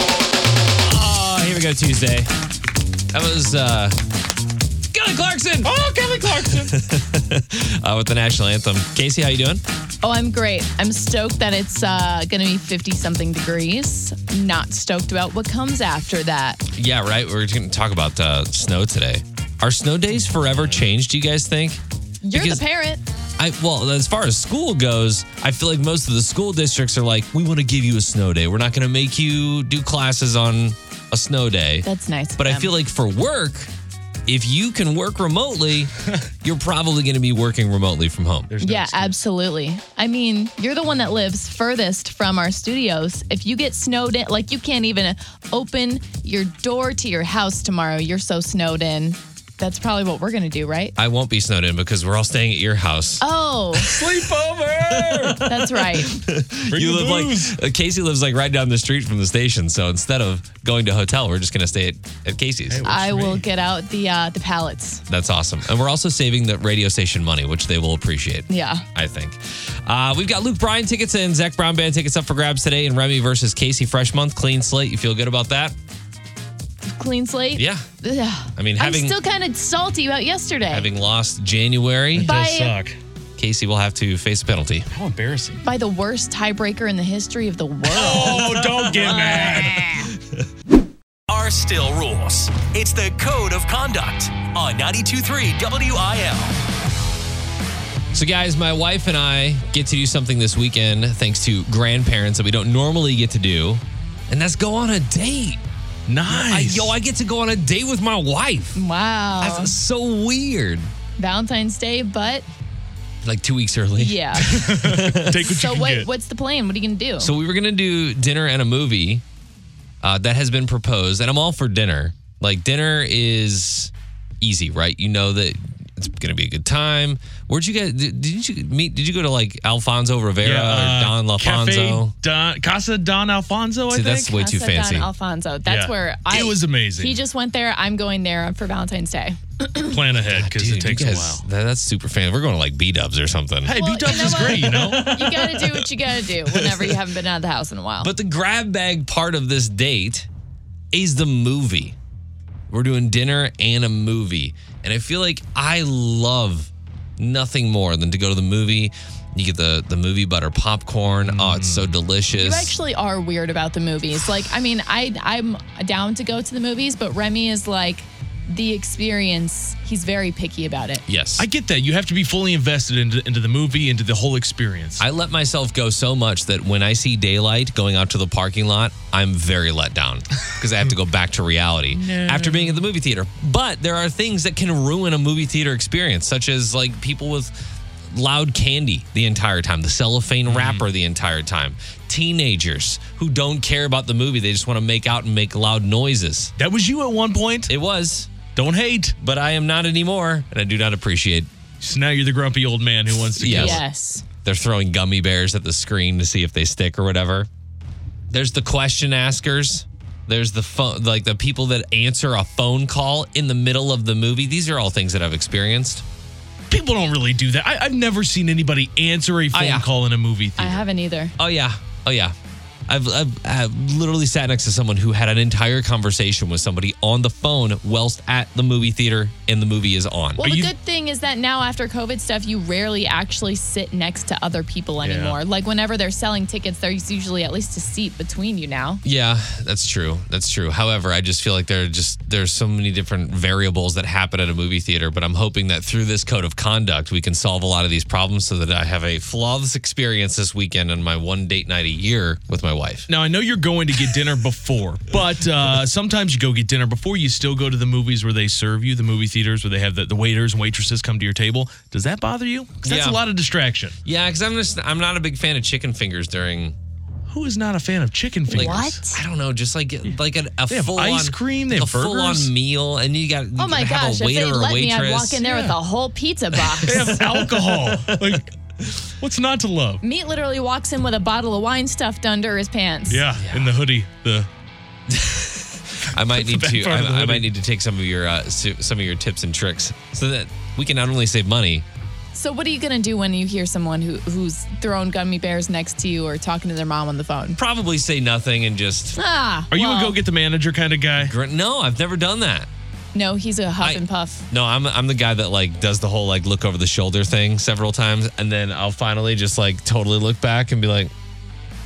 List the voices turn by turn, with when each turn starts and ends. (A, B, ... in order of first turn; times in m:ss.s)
0:00.9-0:02.3 A
0:03.1-0:04.0 A
0:04.9-0:05.7 A
0:05.6-0:06.8 B
0:06.5-0:09.6 A
0:10.0-0:16.6 C
0:16.7-0:21.8 A
0:22.2-0:23.0 C
0:22.3-0:22.6 A
0:23.4-0:31.9 A
0:31.8-0:32.7 C
0:32.4-0:33.7 A
0:34.3-0:35.9 A
0:36.4-0:38.5 A
0:38.5-0:39.2 B
0:38.6-0:51.0 C
0:51.0-0:53.2 A
0:53.2-0:54.0 C
0:53.8-0:54.3 A
0:53.8-0:55.4 B
0:54.9-1:02.9 A
0:55.4-0:56.2 C
0:56.7-0:57.5 B
1:02.7-1:03.5 B
1:02.8-1:05.0 C
1:05.1-1:15.8 A
1:08.5-1:08.9 C
1:16.8-1:20.9 C
1:17.6-1:17.9 A
1:18.6-1:19.2 A
1:20.7-1:22.4 A
1:22.2-1:23.0 B
1:22.2-1:22.8 C
1:23.4-1:24.9 A
1:24.9-1:25.6 B
1:25.6-1:28.5 C
1:27.9-1:30.1 B
1:28.1-1:30.5 A
1:31.3-1:36.6 D
1:38.1-1:45.6 A
1:46.1-1:46.9 B
1:46.3-1:48.8 A
1:48.8-1:49.7 C
1:49.4-1:50.9 A
1:51.2-1:52.5 C
1:53.2-1:55.5 A
1:54.0-1:54.6 C
1:54.4-1:56.1 B
1:55.4-1:57.3 C
1:57.2-1:59.2 A
2:00.0-2:12.1 A
2:10.4-2:14.3 B
2:13.9-2:15.1 A
2:14.1-2:20.0 C
2:15.7-2:17.2 B
2:19.8-2:21.4 B
2:20.3-2:23.8 A
2:23.6-2:25.4 B
2:23.7-2:28.1 C
2:24.3-2:25.9 A
2:26.5-2:27.0 A
2:28.0-2:30.3 A
2:30.9-2:32.0 A
2:32.7-2:42.8 A
2:41.2-2:41.9 B
2:42.3-2:51.0 C
2:51.1-2:51.5 A
2:51.4-2:55.0 B
2:55.0-3:07.5 A
3:01.9-3:02.8 B
3:08.1-3:16.5 A
3:10.5-3:10.8 B
3:16.6-3:17.7 B
3:17.7-3:18.3 A
3:18.5-3:19.2 B
3:19.2-3:21.5 A
3:21.8-3:23.8 B
3:23.3-3:23.8 A
3:23.5-3:24.2 C
3:24.4-3:27.5 A
3:28.3-3:36.0 A
3:36.7-3:40.8 B
3:39.5-3:39.9 A
3:40.6-3:41.4 C
3:41.4-3:42.4 A
3:42.9-3:50.7 A
3:50.4-3:59.0 C
3:50.4-3:50.7 B
3:55.0-3:55.4 B
3:59.0-4:13.1 A
4:13.1-4:24.0 B
4:22.8-4:23.2 A
4:24.0-4:26.8 A
4:27.3-4:29.0 B
4:28.5-4:29.2 C
4:28.5-4:35.4 A
4:30.7-4:32.5 B
4:33.6-4:37.0 C
4:35.4-4:35.8 B
4:36.6-4:38.4 A
4:36.8-4:38.5 B
4:39.2-4:40.0 B
4:40.0-4:43.2 C
4:43.1-4:44.5 B
4:43.4-4:43.7 A
4:45.1-4:51.8 A
4:46.1-4:47.5 B
4:52.3-4:57.6 C
4:57.6-4:59.2 A
4:59.2-5:00.2 C
4:59.7-5:01.3 B
5:01.2-5:02.7 A
5:03.1-5:04.5 C
5:03.8-5:11.1 A